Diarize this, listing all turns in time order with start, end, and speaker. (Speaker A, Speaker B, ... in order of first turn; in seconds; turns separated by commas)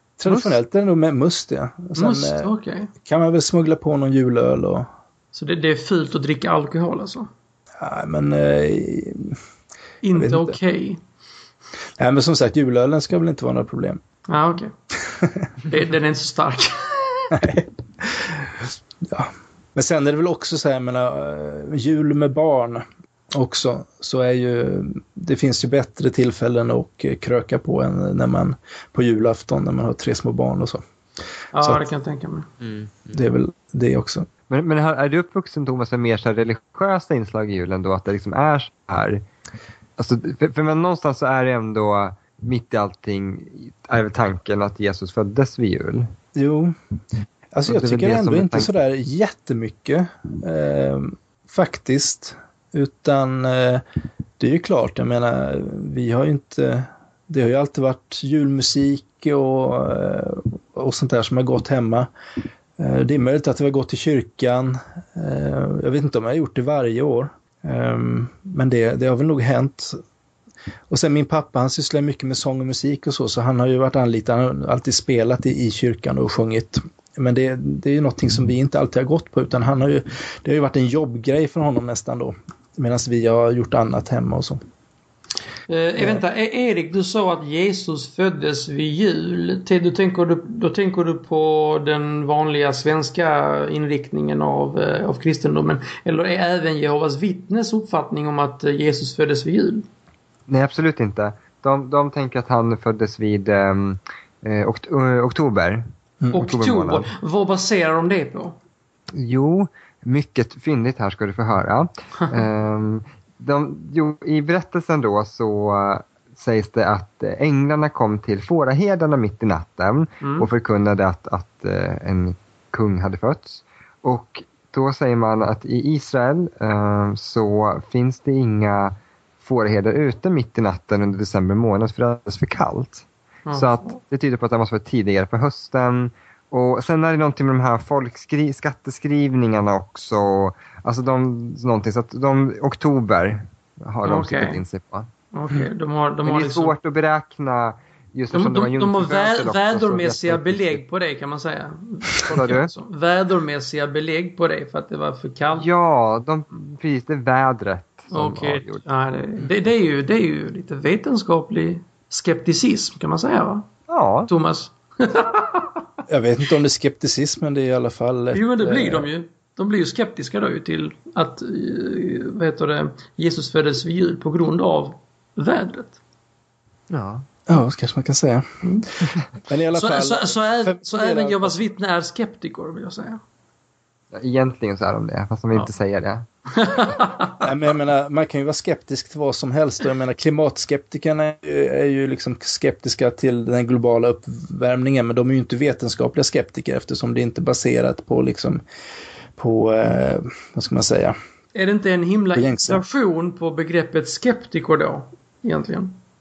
Speaker A: 0.2-4.9, Speaker B: 1.9-2.9, Speaker B: 5.3-7.3, Speaker A: 7.8-9.4, Speaker B: 10.0-11.0, Speaker A: 10.1-10.6, Speaker A: 12.0-14.0, Speaker B: 14.3-14.7, Speaker A: 15.2-15.5, Speaker B: 15.7-17.3, Speaker A: 17.3-30.8, Speaker B: 31.5-32.5, Speaker A: 31.6-31.8, Speaker C: 32.6-33.1, Speaker A: 33.1-34.3, Speaker C: 34.5-39.2, Speaker C: 40.0-46.1, Speaker A: 46.3-46.7, Speaker A: 47.5-53.8, Speaker C: 47.7-48.7, Speaker A: 54.4-62.1, Speaker A: 62.8-70.0, Speaker A: 70.9-84.6, Speaker B: 85.7-99.8, Speaker C: 100.5-105.8, Speaker A: 106.2-106.5, Speaker B: 106.3-108.5, Speaker C: 106.3-107.1, Speaker C: 109.1-145.1, Speaker B: 120.2-120.5, Speaker B: 133.4-133.9, Speaker B: 144.0-144.6, Speaker B: 145.3-146.7, Speaker C: 146.2-150.8, Speaker B: 148.3-155.7, Speaker C: 152.3-152.7, Speaker C: 155.6-158.8, Speaker B: 158.1-163.7, Speaker C: 163.9-164.3, Speaker B: 164.3-165.7, Speaker A: 166.1-169.1, Speaker B: 168.3-176.0, Speaker C: 176.9-177.3, Speaker A: 177.5-181.6, Speaker B: 179.7-183.2, Speaker C: 184.1-186.2, Speaker B: 186.5-187.4, Speaker A: 187.4-198.6, Speaker A: 199.4-201.2, Speaker B: 201.5-206.0, Speaker A: 202.3-202.8